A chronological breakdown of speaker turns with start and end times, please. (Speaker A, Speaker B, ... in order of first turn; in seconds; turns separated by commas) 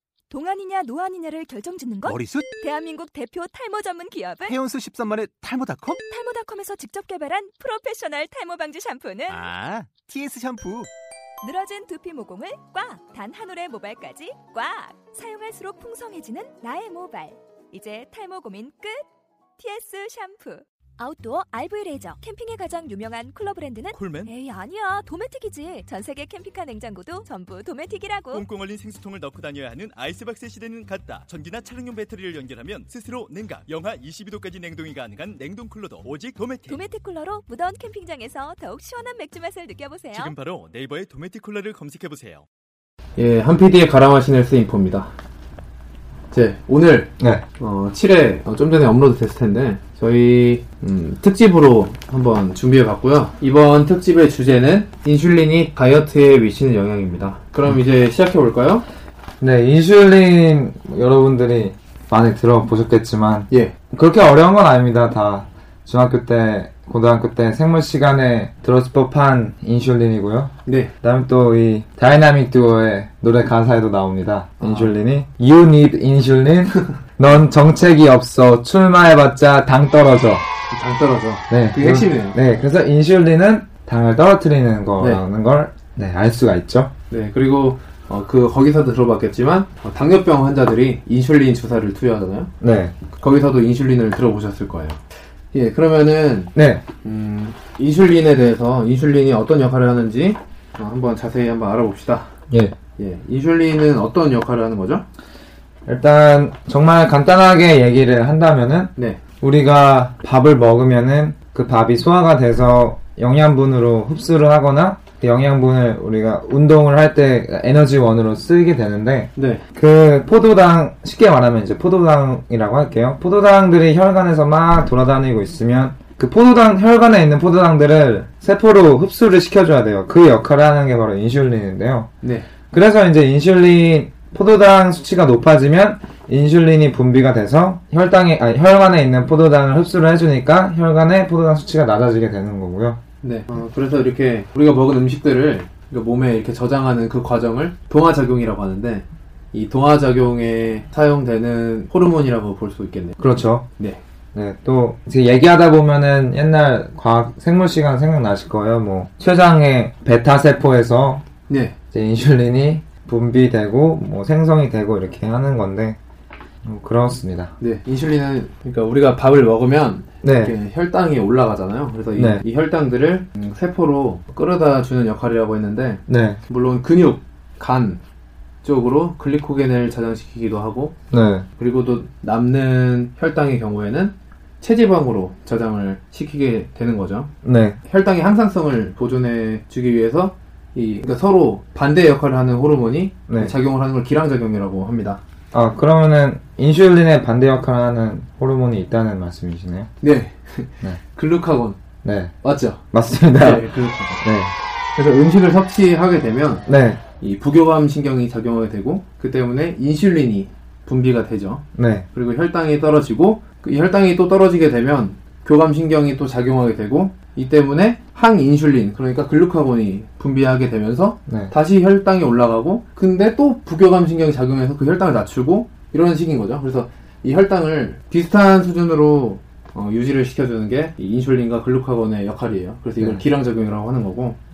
Speaker A: 0.3-4.6, Speaker B: 2.1-2.5, Speaker B: 4.5-6.0, Speaker A: 5.8-9.5, Speaker B: 9.3-10.9, Speaker A: 11.4-19.1, Speaker A: 19.6-28.4, Speaker C: 23.9-24.3, Speaker C: 28.3-36.9, Speaker A: 36.7-40.3, Speaker C: 40.1-42.5, Speaker D: 43.2-45.1, Speaker D: 46.3-58.9, Speaker E: 59.4-80.5, Speaker D: 63.5-63.8, Speaker D: 70.7-70.9, Speaker D: 74.6-75.0, Speaker D: 80.7-82.4, Speaker E: 81.5-86.9, Speaker D: 87.1-92.5, Speaker E: 92.6-93.0, Speaker D: 93.2-102.3, Speaker E: 96.5-96.8, Speaker E: 102.5-102.8, Speaker D: 103.0-105.0, Speaker E: 105.9-132.1, Speaker D: 109.0-109.2, Speaker D: 119.4-119.6, Speaker D: 132.2-132.5, Speaker E: 132.7-143.0, Speaker D: 143.2-153.2, Speaker E: 153.2-153.7, Speaker D: 153.8-154.0, Speaker E: 154.3-161.2, Speaker D: 161.5-161.8, Speaker E: 161.9-166.0, Speaker E: 166.7-167.5, Speaker D: 167.6-178.0, Speaker E: 170.2-170.5, Speaker E: 172.2-172.4, Speaker E: 176.1-176.4, Speaker D: 178.6-180.9, Speaker E: 181.1-181.5, Speaker D: 181.6-187.3, Speaker E: 187.4-187.8, Speaker D: 187.8-195.2, Speaker E: 193.3-193.6, Speaker E: 195.5-199.9, Speaker D: 200.0-201.8, Speaker E: 202.0-202.3, Speaker D: 202.4-202.8, Speaker E: 202.9-203.7, Speaker D: 203.4-204.2, Speaker E: 204.2-204.5, Speaker D: 204.9-234.4, Speaker E: 206.7-207.0, Speaker E: 211.8-212.1, Speaker E: 221.3-221.5